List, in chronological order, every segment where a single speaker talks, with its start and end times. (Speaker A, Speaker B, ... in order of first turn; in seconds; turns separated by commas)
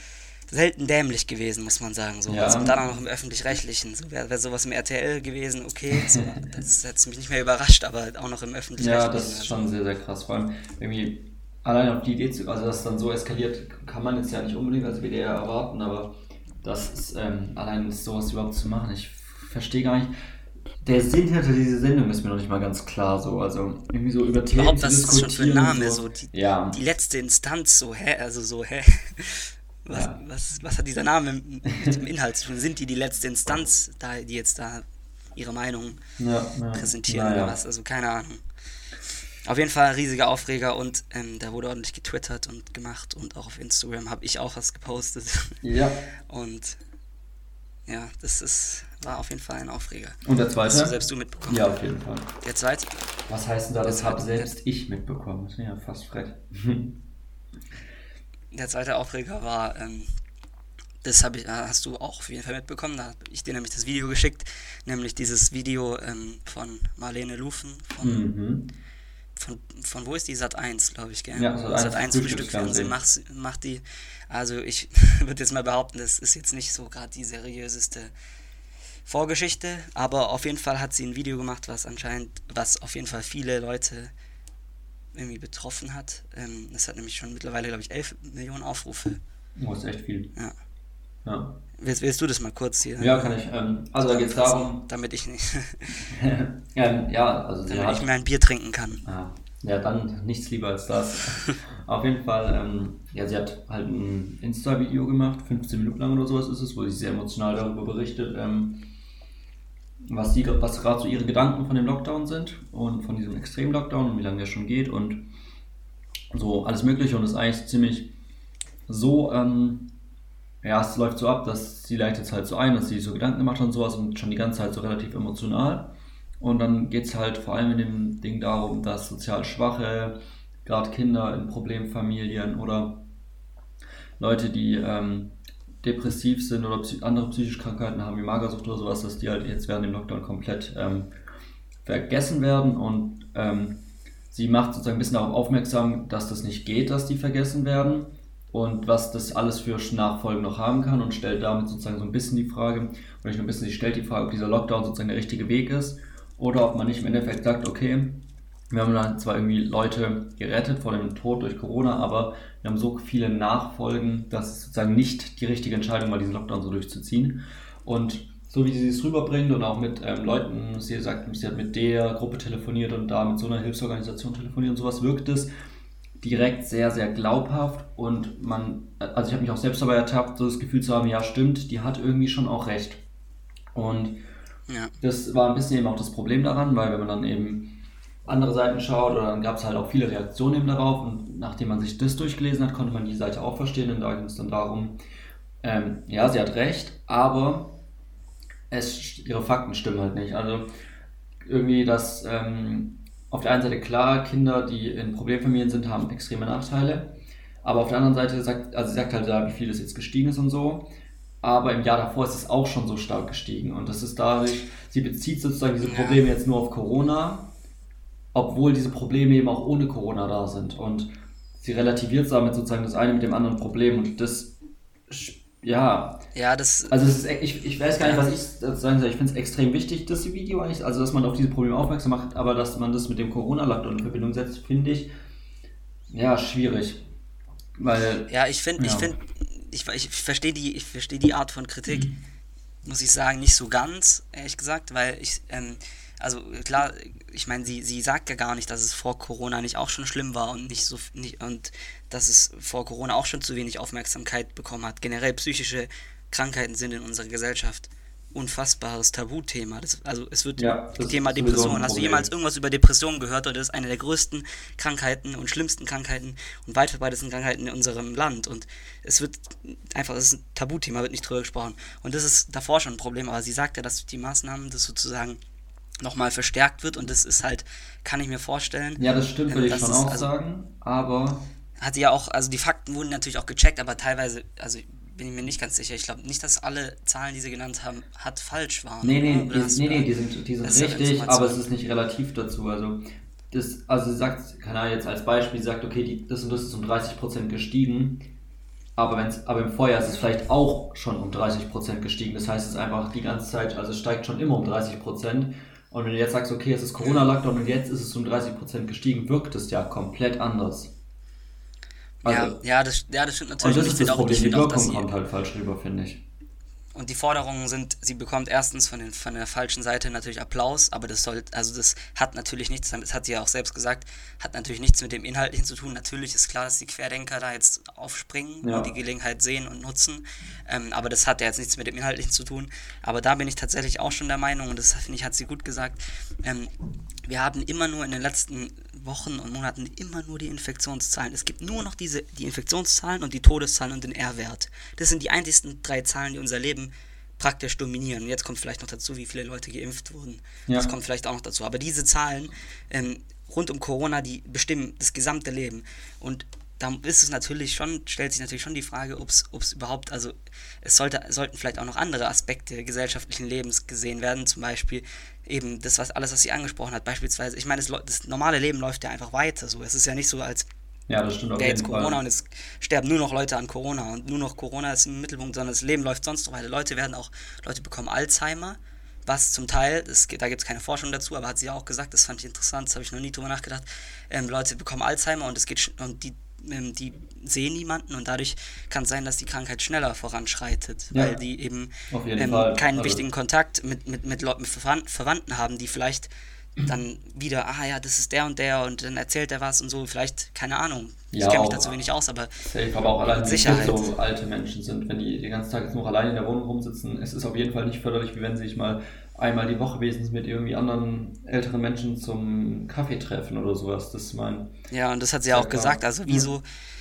Speaker A: 0.5-9.7, Speaker B: 2.3-3.0, Speaker B: 6.0-6.3, Speaker B: 8.8-20.1, Speaker B: 20.8-26.8, Speaker A: 24.5-36.0, Speaker B: 29.9-30.2, Speaker B: 36.2-37.5, Speaker A: 36.7-38.4, Speaker A: 39.4-45.6, Speaker B: 45.6-46.0, Speaker A: 46.3-46.8, Speaker A: 47.9-51.8, Speaker B: 50.2-51.0, Speaker B: 51.5-52.3, Speaker A: 52.4-52.9, Speaker B: 53.3-57.0, Speaker A: 53.8-54.5, Speaker A: 58.5-60.1, Speaker A: 61.0-68.2, Speaker B: 68.0-68.7, Speaker A: 69.4-78.1, Speaker B: 71.4-72.9, Speaker A: 79.1-84.1, Speaker A: 85.1-89.2, Speaker B: 89.6-90.3, Speaker B: 91.2-91.6, Speaker A: 91.8-93.4, Speaker B: 93.0-94.8, Speaker A: 94.0-96.1, Speaker B: 96.1-98.1, Speaker A: 97.7-99.0, Speaker B: 99.0-108.9, Speaker B: 110.1-115.2, Speaker B: 116.3-118.1, Speaker B: 118.9-119.9, Speaker B: 120.6-133.1, Speaker B: 134.2-141.1, Speaker B: 141.8-175.5, Speaker B: 176.2-183.0, Speaker B: 183.7-184.2, Speaker B: 185.0-187.8, Speaker B: 188.3-195.0, Speaker B: 195.6-197.8, Speaker B: 198.7-200.7, Speaker B: 201.4-210.9, Speaker B: 211.4-217.5, Speaker A: 215.8-216.2, Speaker B: 218.3-224.6, Speaker B: 225.1-226.2, Speaker A: 226.3-227.0, Speaker B: 226.9-235.1, Speaker A: 228.0-228.3, Speaker B: 236.1-237.0, Speaker B: 237.8-239.1, Speaker A: 238.3-242.1, Speaker B: 241.9-242.2, Speaker A: 242.8-275.4, Speaker B: 260.6-262.3, Speaker A: 276.0-280.3, Speaker B: 279.0-281.5, Speaker A: 281.8-290.1, Speaker B: 289.0-298.2, Speaker A: 290.6-291.6, Speaker B: 299.0-310.9, Speaker A: 307.0-307.2, Speaker A: 312.2-315.1, Speaker B: 312.2-312.6, Speaker B: 313.6-316.2, Speaker A: 316.9-336.7, Speaker B: 328.6-328.9, Speaker A: 337.3-370.7, Speaker B: 371.1-372.2, Speaker A: 371.6-402.5, Speaker B: 391.1-391.4, Speaker B: 392.1-393.2, Speaker B: 401.3-401.9, Speaker B: 402.7-414.7, Speaker A: 403.3-404.1, Speaker A: 414.9-416.6, Speaker B: 415.5-416.5